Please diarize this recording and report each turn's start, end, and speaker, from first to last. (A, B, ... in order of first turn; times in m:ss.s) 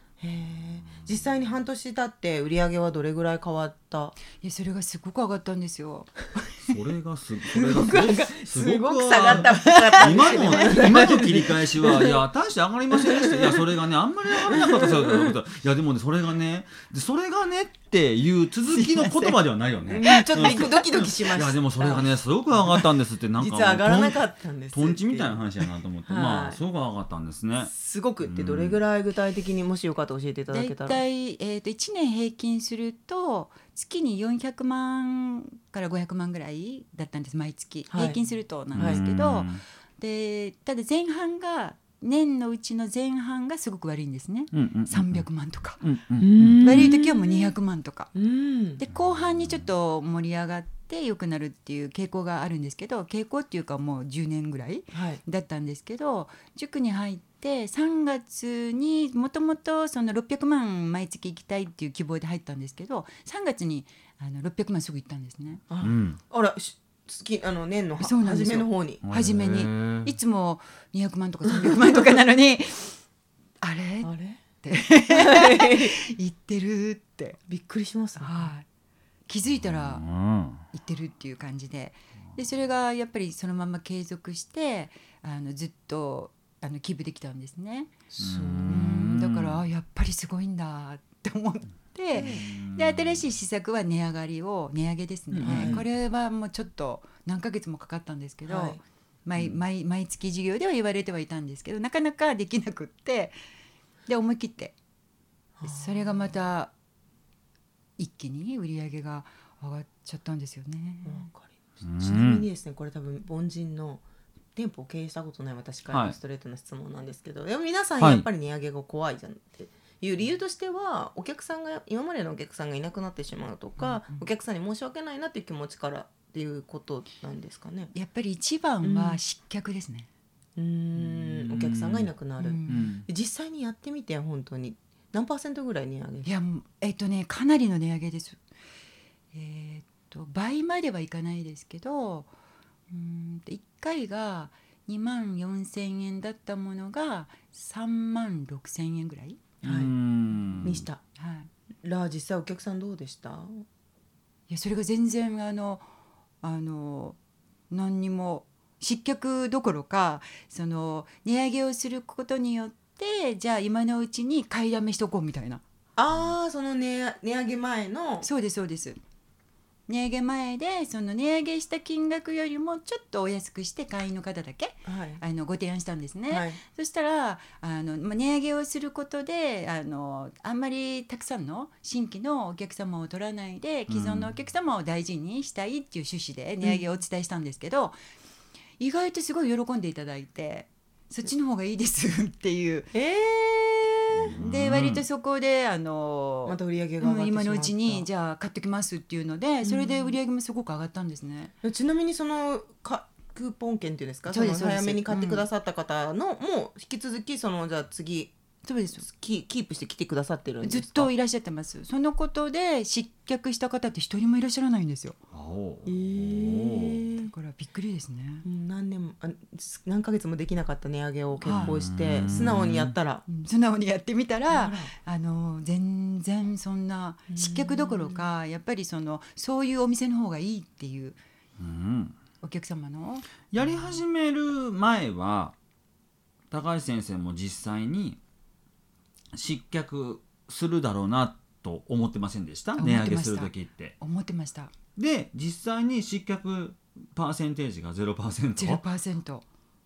0:00.2-0:04.2 A
0:04.4-0:06.7 B
0:06.7-0:24.2 C
0:07.5-0:12.2 A
0:09.6-0:10.9 B
0:13.0-0:13.6 A
0:14.5-0:15.3 A
0:18.7-0:19.4 B
0:19.9-0:22.1 A
0:20.0-0:20.8 B
0:23.4-0:26.6 A
0:24.7-0:27.7 C
0:27.6-0:31.0 A
0:28.2-0:28.8 C
0:30.5-0:45.8 B
0:37.9-0:38.2 A
0:38.7-0:39.6 C
0:38.8-0:39.0 A
0:44.5-0:45.3 C
0:45.8-0:46.9 C
0:46.2-0:47.6 A
0:46.6-0:48.1 B
0:48.2-0:48.8 A
0:48.8-1:05.6 B
0:54.9-0:55.2 A
1:05.7-1:09.0 A
1:05.8-1:06.2 C
1:08.0-1:13.0 B
1:09.0-1:10.1 C
1:13.6-1:14.1 B
1:14.0-1:14.4 A
1:14.6-1:17.4 B
1:15.1-1:16.0 A
1:17.5-1:18.4 A
1:18.2-1:18.7 B
1:19.3-1:20.0 B
1:19.5-1:20.6 C
1:20.7-1:27.9 B
1:28.1-1:28.9 A
1:28.2-1:29.6 C
1:28.7-1:43.4 B
1:32.1-1:32.4 A
1:32.2-1:33.2 C
1:35.3-1:35.8 C
1:35.4-1:35.8 A
1:38.5-1:38.8 A
1:44.1-1:44.8 B
1:45.6-1:46.3 A
1:45.6-1:46.7 B
1:48.0-1:51.3 B
1:51.0-1:54.0 A
1:51.8-1:52.5 C
1:54.6-2:07.9 A
1:55.9-1:56.2 C
1:58.0-1:58.3 C
2:07.9-2:10.1 B
2:08.8-2:09.2 A
2:10.6-2:16.3 A
2:11.0-2:12.1 C
2:12.4-2:12.9 B
2:12.7-2:13.1 C
2:16.2-2:18.4 B
2:19.3-2:22.3 B
2:22.9-2:29.4 B
2:29.6-2:29.9 A
2:29.6-2:30.9 C
2:30.6-2:31.0 A
2:31.2-2:31.5 B
2:31.8-2:33.6 A
2:34.5-2:35.9 B
2:36.4-2:37.2 B
2:37.7-2:45.6 B
2:46.0-2:48.3 A
2:48.2-2:49.0 B
2:49.9-3:08.0 B
2:54.9-2:55.2 A
2:56.3-2:56.6 A
3:03.9-3:04.3 C
3:06.6-3:07.0 A
3:08.8-3:12.9 B
3:12.9-3:14.3 A
3:14.2-3:15.0 C
3:14.3-3:21.5 B
3:16.5-3:18.1 A
3:19.6-3:20.2 A
3:21.6-3:28.3 A
3:24.3-3:25.5 B
3:28.6-3:29.0 B
3:29.0-3:31.1 A
3:30.6-3:35.2 B
3:35.3-3:37.0 C
3:35.9-3:37.3 A
3:37.2-3:38.4 B
3:38.4-3:43.2 A
3:41.4-3:41.8 B
3:41.5-3:43.0 C
3:43.3-3:51.2 B
3:44.5-3:44.9 A
3:47.3-3:48.3 A
3:51.6-3:52.2 C
3:52.4-3:53.3 B
3:53.5-3:55.6 C
3:56.5-3:58.2 C
3:59.3-4:04.0 C
4:02.8-4:04.7 B
4:05.0-4:08.8 C
4:08.6-4:09.4 B